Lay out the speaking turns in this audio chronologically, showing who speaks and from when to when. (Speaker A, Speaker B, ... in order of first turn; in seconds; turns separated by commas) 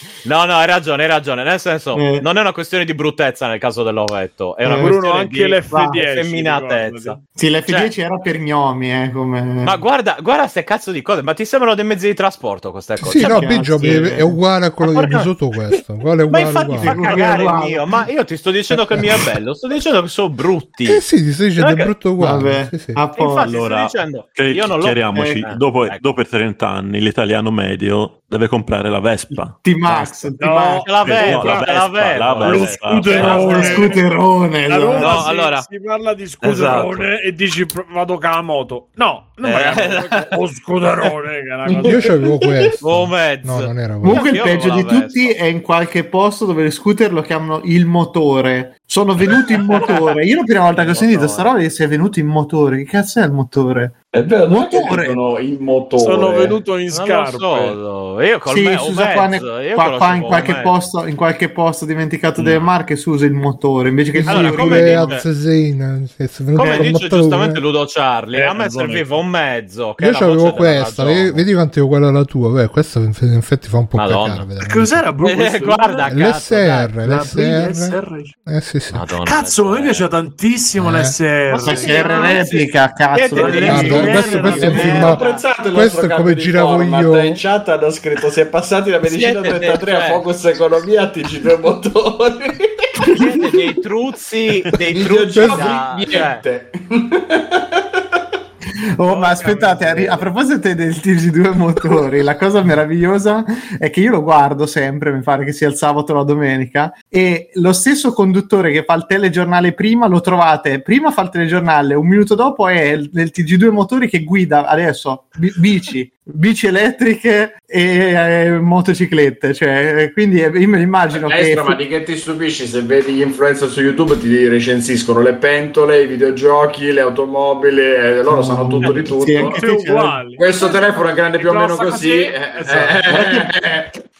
Speaker A: 0.2-7.9, Speaker B: 1.9-2.2, Speaker B: 4.6-4.9, Speaker C: 4.8-7.2, Speaker B: 5.7-6.0, Speaker B: 7.3-9.8, Speaker A: 9.6-13.4, Speaker D: 13.0-17.3, Speaker B: 13.1-14.4, Speaker A: 14.8-15.2, Speaker A: 16.3-21.0, Speaker B: 16.8-17.8, Speaker D: 20.9-23.0, Speaker A: 21.6-21.9, Speaker B: 22.2-23.5, Speaker A: 23.1-26.0, Speaker E: 23.4-30.3, Speaker B: 25.1-25.4, Speaker B: 29.6-30.9, Speaker C: 30.4-31.6, Speaker A: 30.8-33.9, Speaker E: 30.9-33.8, Speaker C: 32.4-34.1, Speaker B: 33.1-35.3, Speaker C: 34.6-42.1, Speaker A: 35.0-35.7, Speaker A: 36.4-37.0, Speaker A: 39.4-40.3, Speaker D: 41.8-44.2, Speaker A: 42.8-45.4, Speaker B: 44.0-54.0, Speaker C: 49.5-49.9, Speaker A: 50.7-51.5, Speaker F: 54.1-56.6, Speaker B: 54.5-55.2, Speaker C: 56.0-57.8, Speaker A: 56.9-60.7, Speaker B: 58.5-65.2, Speaker D: 64.1-67.6, Speaker A: 64.3-65.2, Speaker A: 66.5-71.5, Speaker B: 66.6-66.9, Speaker C: 68.3-69.2, Speaker D: 70.0-75.0, Speaker A: 74.0-74.5, Speaker C: 74.6-76.1, Speaker A: 75.2-76.9, Speaker D: 76.0-79.0, Speaker C: 77.0-78.3, Speaker A: 78.9-80.1, Speaker C: 79.2-82.3, Speaker D: 80.8-81.2, Speaker B: 81.5-85.3, Speaker A: 81.6-85.4, Speaker F: 81.7-82.4, Speaker F: 83.3-93.1, Speaker C: 83.4-84.5, Speaker D: 83.7-85.2, Speaker D: 85.7-87.4, Speaker A: 89.0-90.2, Speaker A: 93.1-96.4, Speaker F: 94.9-97.6, Speaker D: 95.4-95.7, Speaker B: 98.9-121.8, Speaker C: 99.1-100.2, Speaker F: 121.1-129.6, Speaker B: 128.3-130.2, Speaker C: 128.8-133.1, Speaker F: 130.3-133.9